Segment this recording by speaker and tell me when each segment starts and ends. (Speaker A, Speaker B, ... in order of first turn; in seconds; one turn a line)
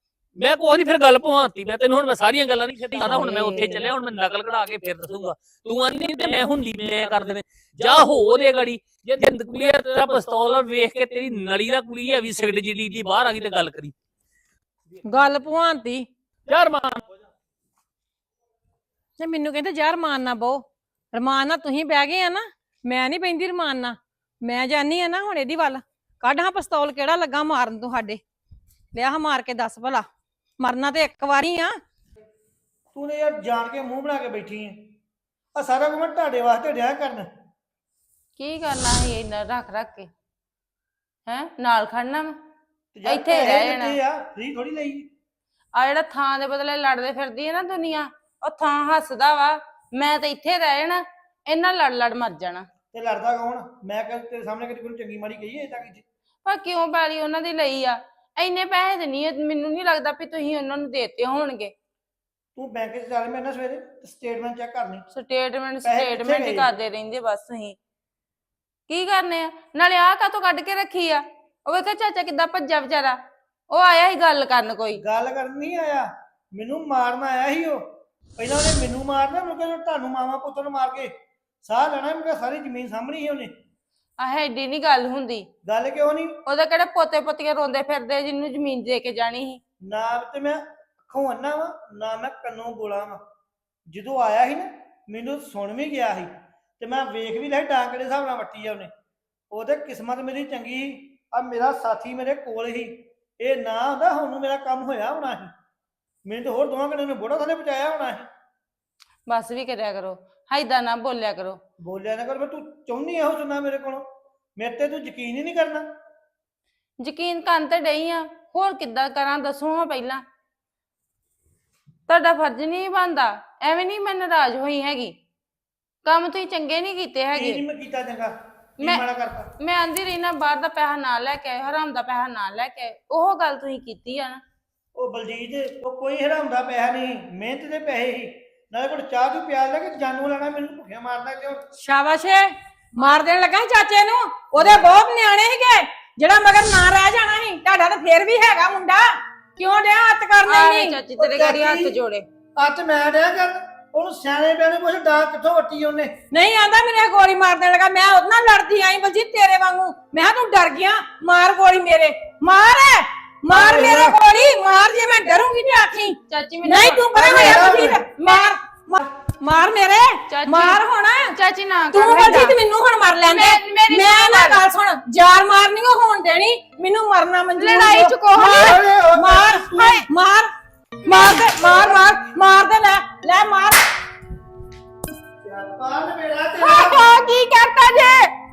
Speaker A: 0.3-13.9
Speaker B: 3.1-3.9
Speaker A: 14.9-15.3
Speaker C: 15.0-16.1
Speaker A: 16.5-17.0
Speaker C: 19.2-28.2
Speaker C: 28.9-30.1
Speaker C: 30.6-31.7
Speaker D: 32.9-34.9
Speaker D: 35.5-37.3
Speaker B: 38.4-40.1
Speaker B: 41.3-42.3
Speaker D: 42.9-45.0
Speaker B: 43.0-44.0
Speaker B: 45.7-52.6
Speaker D: 52.9-56.0
Speaker B: 56.4-61.7
Speaker D: 62.5-65.0
Speaker B: 65.1-67.8
Speaker D: 65.8-66.7
Speaker B: 68.9-73.2
Speaker B: 73.7-75.0
Speaker D: 74.9-77.8
Speaker D: 78.4-81.1
Speaker D: 81.6-83.5
Speaker B: 84.2-85.5
Speaker D: 85.7-86.3
Speaker B: 86.5-89.6
Speaker D: 89.8-93.2
Speaker D: 93.9-98.9
Speaker D: 99.5-105.5
Speaker D: 106.2-108.2
Speaker B: 109.3-111.6
Speaker D: 111.8-114.0
Speaker D: 114.6-115.8
Speaker B: 117.0-120.2
Speaker B: 122.1-125.1
Speaker B: 126.0-127.6
Speaker D: 127.3-129.5
Speaker B: 129.6-134.4
Speaker D: 134.9-141.6
Speaker C: 141.8-151.0
Speaker B: 150.4-152.2
Speaker D: 151.2-151.9
Speaker D: 152.6-156.1
Speaker C: 156.3-171.4
Speaker D: 163.5-164.2
Speaker B: 166.3-168.5
Speaker D: 167.1-168.0
Speaker B: 170.3-170.8
Speaker B: 171.3-172.6
Speaker C: 171.9-180.5
Speaker B: 173.2-174.6
Speaker B: 177.6-178.8
Speaker D: 178.5-180.1
Speaker C: 181.0-183.8
Speaker B: 181.1-181.5
Speaker D: 185.4-187.1
Speaker C: 186.6-188.3